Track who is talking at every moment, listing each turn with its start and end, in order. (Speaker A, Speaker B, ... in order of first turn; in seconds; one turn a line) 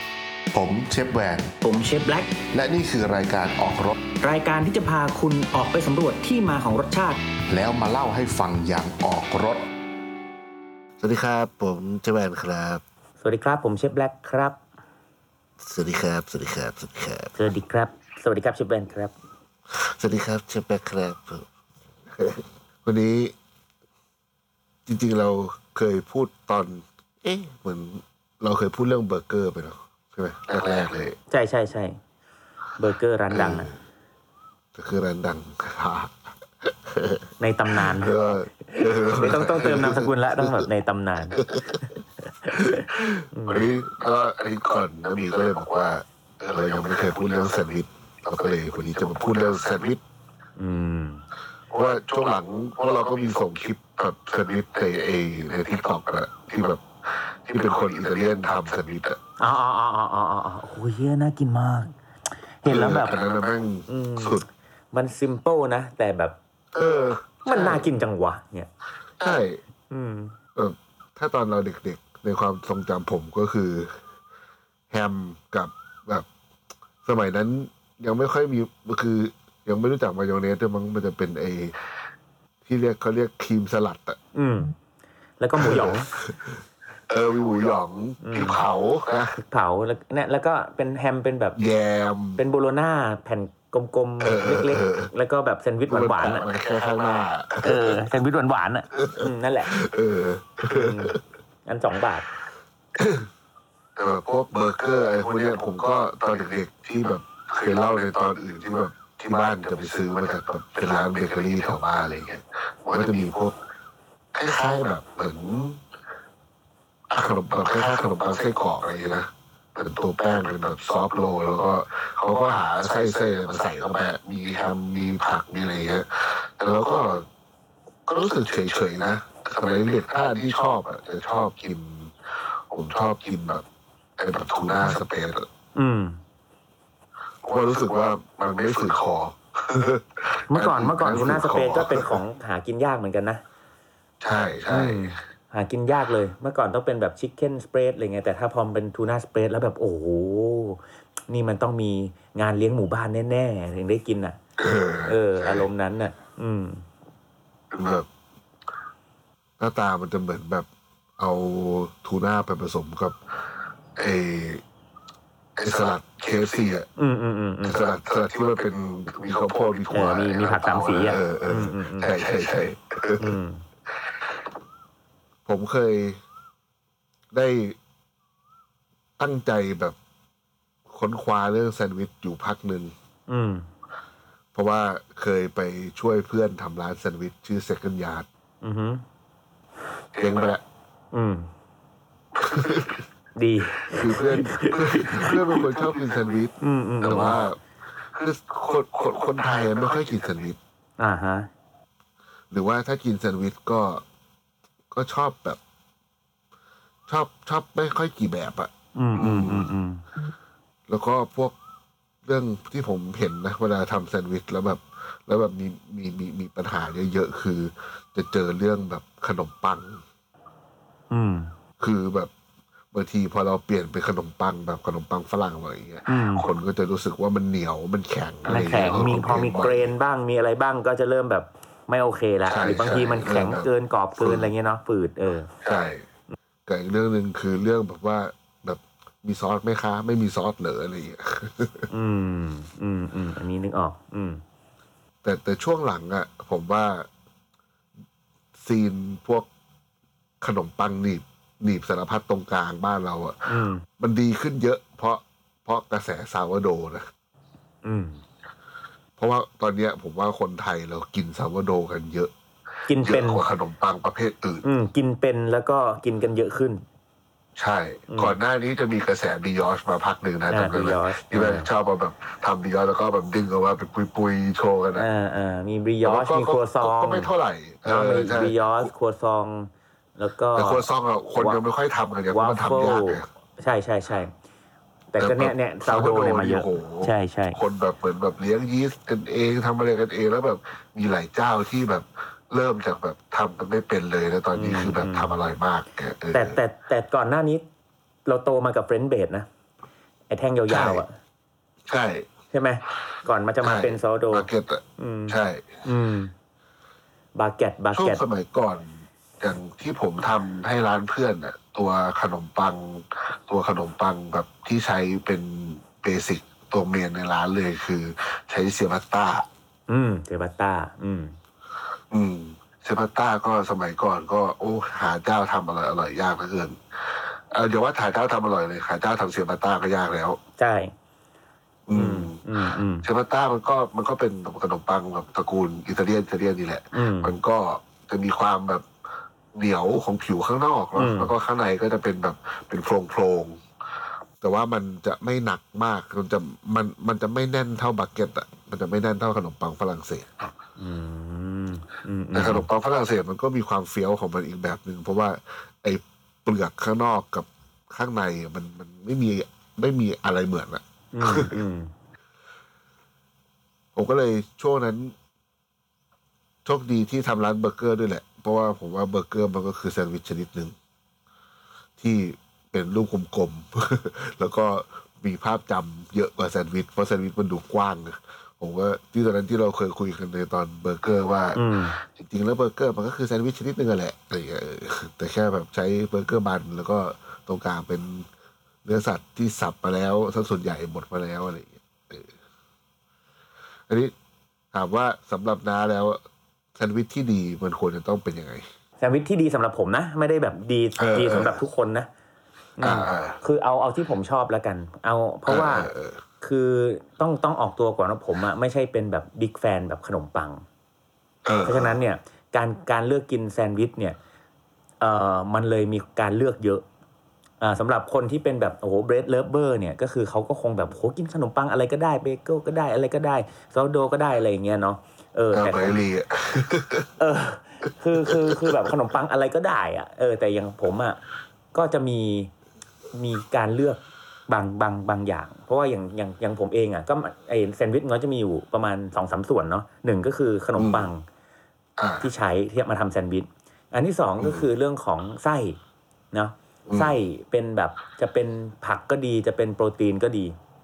Speaker A: 0.5-1.6
Speaker B: 1.6-2.3
Speaker A: 2.4-4.0
Speaker B: 4.2-7.2
Speaker A: 7.5-9.7
Speaker C: 11.0-12.8
Speaker B: 13.2-14.6
Speaker C: 15.6-17.3
Speaker B: 17.4-19.1
Speaker C: 19.7-21.4
Speaker C: 22.1-23.3
Speaker C: 24.9-31.1
Speaker B: 31.3-32.0
Speaker B: 32.8-33.7
Speaker C: 33.3-33.8
Speaker C: 34.7-40.7
Speaker B: 37.4-38.2
Speaker B: 38.7-41.9
Speaker C: 41.4-41.8
Speaker B: 42.4-43.7
Speaker C: 42.5-50.0
Speaker B: 50.6-51.2
Speaker C: 51.7-56.8
Speaker C: 57.5-59.2
Speaker B: 59.4-61.9
Speaker B: 62.6-63.1
Speaker C: 62.7-64.5
Speaker B: 63.9-66.4
Speaker C: 66.7-67.8
Speaker B: 67.5-68.7
Speaker C: 69.2-69.6
Speaker B: 69.9-70.3
Speaker C: 70.5-73.9
Speaker C: 74.9-76.2
Speaker C: 77.0-81.7
Speaker C: 82.6-84.2
Speaker B: 84.3-84.7
Speaker B: 85.4-86.1
Speaker C: 85.6-89.3
Speaker B: 88.2-88.6
Speaker B: 89.5-91.6
Speaker C: 91.6-92.4
Speaker B: 92.4-96.5
Speaker C: 94.2-95.1
Speaker C: 95.9-98.0
Speaker B: 97.6-99.8
Speaker C: 99.0-101.2
Speaker B: 100.7-102.3
Speaker C: 103.0-103.2
Speaker C: 104.0-113.5
Speaker C: 114.3-115.8
Speaker C: 117.1-127.2
Speaker C: 128.1-132.1
Speaker C: 132.7-133.6
Speaker C: 134.2-135.5
Speaker B: 135.7-136.2
Speaker C: 137.4-142.2
Speaker B: 140.5-143.4
Speaker C: 144.2-145.2
Speaker B: 144.7-154.4
Speaker C: 154.6-155.7
Speaker B: 155.1-156.8
Speaker C: 157.7-158.1
Speaker C: 159.6-160.7
Speaker C: 161.2-163.2
Speaker C: 164.0-164.6
Speaker C: 165.6-166.8
Speaker B: 167.0-167.8
Speaker C: 167.6-173.3
Speaker B: 169.9-172.2
Speaker B: 173.2-173.6
Speaker C: 175.4-176.2
Speaker C: 177.3-177.8
Speaker C: 179.2-179.9
Speaker C: 180.9-182.9
Speaker B: 183.3-183.7
Speaker C: 184.5-188.2
Speaker B: 188.6-189.0
Speaker C: 190.2-190.6
Speaker B: 191.1-191.5
Speaker C: 192.3-193.0
Speaker B: 193.3-195.7
Speaker C: 193.9-197.6
Speaker B: 196.6-197.4
Speaker C: 198.1-200.6
Speaker B: 201.0-201.5
Speaker C: 202.5-204.0
Speaker C: 204.9-205.6
Speaker C: 207.1-209.7
Speaker B: 208.9-210.0
Speaker C: 210.9-211.6
Speaker C: 212.2-220.0
Speaker B: 221.1-221.5
Speaker C: 221.8-222.3
Speaker C: 222.9-229.9
Speaker B: 226.1-226.5
Speaker B: 228.5-235.5
Speaker C: 232.5-234.5
Speaker C: 235.6-236.0
Speaker C: 236.7-241.9
Speaker B: 241.9-244.4
Speaker C: 245.2-247.1
Speaker C: 248.6-249.5
Speaker C: 250.4-253.3
Speaker B: 253.5-253.8
Speaker C: 254.0-257.1
Speaker B: 257.8-258.2
Speaker C: 259.2-262.3
Speaker B: 262.9-263.4
Speaker C: 263.0-264.6
Speaker B: 264.6-266.8
Speaker C: 267.6-275.1
Speaker B: 268.1-268.4
Speaker B: 270.5-271.7
Speaker B: 274.9-277.3
Speaker C: 276.0-278.9
Speaker B: 277.8-281.6
Speaker C: 280.6-283.2
Speaker B: 282.3-284.3
Speaker B: 285.1-287.6
Speaker C: 285.2-296.6
Speaker B: 294.5-295.3
Speaker B: 296.3-297.6
Speaker B: 298.2-299.5
Speaker B: 300.3-301.1
Speaker C: 300.7-301.0
Speaker C: 301.9-302.3
Speaker B: 302.5-306.3
Speaker C: 303.6-305.8
Speaker B: 307.4-308.2
Speaker C: 307.9-319.4
Speaker B: 319.9-321.4
Speaker C: 322.1-330.4
Speaker B: 330.6-330.9
Speaker C: 331.9-332.4
Speaker B: 331.9-333.1
Speaker C: 333.0-338.9
Speaker B: 336.9-337.3
Speaker C: 339.5-343.6
Speaker B: 340.9-341.3
Speaker C: 344.4-350.5
Speaker B: 350.8-352.7
Speaker C: 352.3-361.5
Speaker B: 361.1-361.9
Speaker C: 363.9-365.1
Speaker C: 366.6-370.7
Speaker C: 372.0-388.3
Speaker B: 381.5-382.0
Speaker C: 388.8-392.3
Speaker C: 394.7-396.2
Speaker C: 396.8-398.6
Speaker B: 399.0-402.1
Speaker C: 401.0-401.6
Speaker B: 402.8-410.6
Speaker C: 402.8-403.4
Speaker C: 405.5-406.2
Speaker C: 411.4-411.9
Speaker B: 411.6-414.2
Speaker B: 415.0-416.8
Speaker B: 417.6-426.0
Speaker C: 425.5-427.1
Speaker B: 427.2-431.2
Speaker C: 428.2-428.6
Speaker B: 431.7-432.5
Speaker B: 433.1-441.2
Speaker C: 440.8-441.1
Speaker C: 442.0-442.2
Speaker B: 442.2-445.8
Speaker C: 444.4-444.6
Speaker B: 446.3-450.6
Speaker C: 446.9-447.1